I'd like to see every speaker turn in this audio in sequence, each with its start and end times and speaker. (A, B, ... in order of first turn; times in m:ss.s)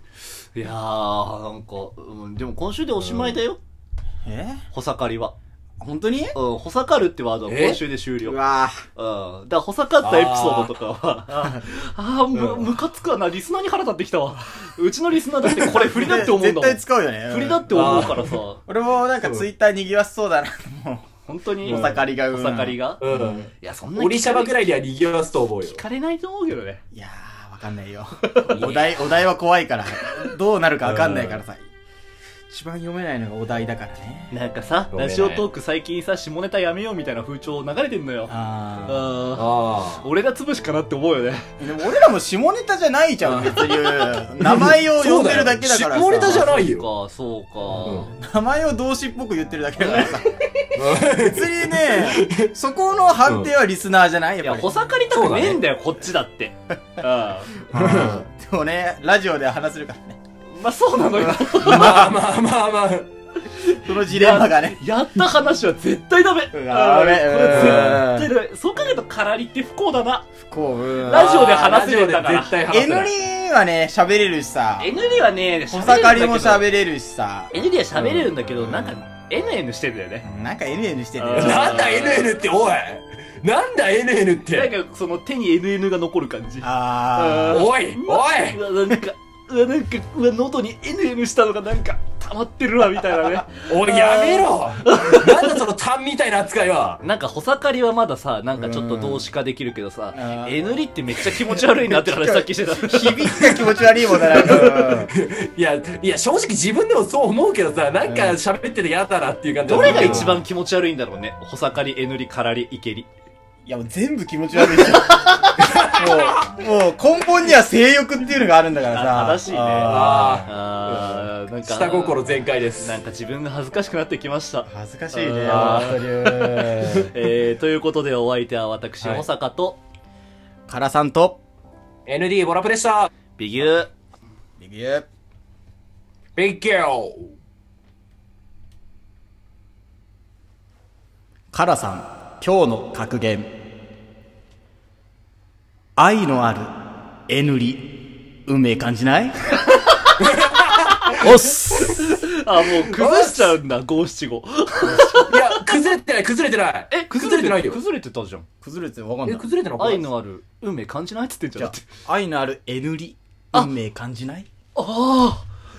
0:00.6-0:03.6 A
0:03.0-0:03.4 B
0:04.2-0:04.6 C
0:04.7-0:05.4 A
0:05.8-0:06.4 C
0:06.4-0:18.6 A
0:07.5-0:07.8 B
0:08.2-0:08.8 C
0:10.0-0:10.7 B
0:12.3-0:12.7 B
0:15.5-0:18.1 C
0:17.7-0:18.3 B
0:18.7-0:21.1 C
0:21.2-0:23.0 A
0:21.6-0:22.0 B
0:21.6-0:23.5 C
0:23.0-0:25.8 B
0:23.6-0:24.6 A
0:25.6-0:26.8 A
0:26.9-0:31.6 C
0:28.3-0:29.1 A
0:30.8-0:31.4 B
0:32.5-0:34.3 C
0:34.3-0:38.3 A
0:34.9-0:35.5 B
0:38.3-0:39.2 C
0:38.9-0:41.5 A
0:39.4-0:40.0 B
0:41.6-0:46.5 C
0:43.2-0:46.8 B
0:46.2-0:48.1 A
0:47.8-0:48.1 B
0:48.0-0:50.3 C
0:49.8-0:50.7 A
0:50.7-0:52.5 B
0:51.1-0:54.7 C
0:53.2-0:53.5 B
0:54.4-0:57.5 A
0:55.1-0:55.6 B
0:57.6-1:00.2 C
0:57.7-0:58.2 B
1:00.5-1:02.1 A
1:01.5-1:03.1 B
1:01.6-1:02.1 C
1:03.5-1:10.2 A
1:03.8-1:04.8 C
1:06.5-1:08.3 C
1:07.5-1:08.0 B
1:10.4-1:11.4 C
1:11.1-1:12.6 A
1:11.1-1:13.1 B
1:12.7-1:14.9 C
1:14.8-1:16.7 A
1:15.7-1:19.0 C
1:17.5-1:20.2 A
1:20.2-1:21.9 C
1:21.2-1:22.3 A
1:21.3-1:24.7 B
1:24.5-1:35.6 A
1:26.6-1:27.7 C
1:27.5-1:28.6 B
1:33.7-1:37.0 B
1:33.9-1:34.4 C
1:37.0-1:43.6 A
1:38.6-1:39.3 C
1:40.1-1:45.1 C
1:44.2-1:50.4 B
1:44.4-1:44.7 A
1:48.0-1:48.4 C
1:49.7-1:53.1 A
1:49.7-1:50.4 C
1:53.6-2:00.5 C
1:54.6-1:55.6 A
1:55.6-1:56.6 B
1:58.8-2:02.3 A
1:59.8-2:02.9 B
2:02.8-2:09.8 A
2:04.7-2:07.1 C
2:05.5-2:06.0 B
2:10.7-2:11.4 C
2:12.1-2:13.1 B
2:13.4-2:13.9 A
2:14.6-2:15.1 C
2:16.4-2:17.3 B
2:21.5-2:23.5 C
2:26.0-2:26.7 C
2:27.3-2:27.8 C
2:28.5-2:29.4 C
2:29.7-2:30.2 A
2:30.2-2:31.9 B
2:31.1-2:35.7 A
2:32.8-2:33.6 B
2:34.9-2:35.1 C
2:35.2-2:37.8 B
2:36.9-2:38.5 A
2:38.6-2:39.5 C
2:39.2-2:40.1 B
2:39.8-2:41.8 A
2:41.6-2:44.5 C
2:44.8-2:45.4 A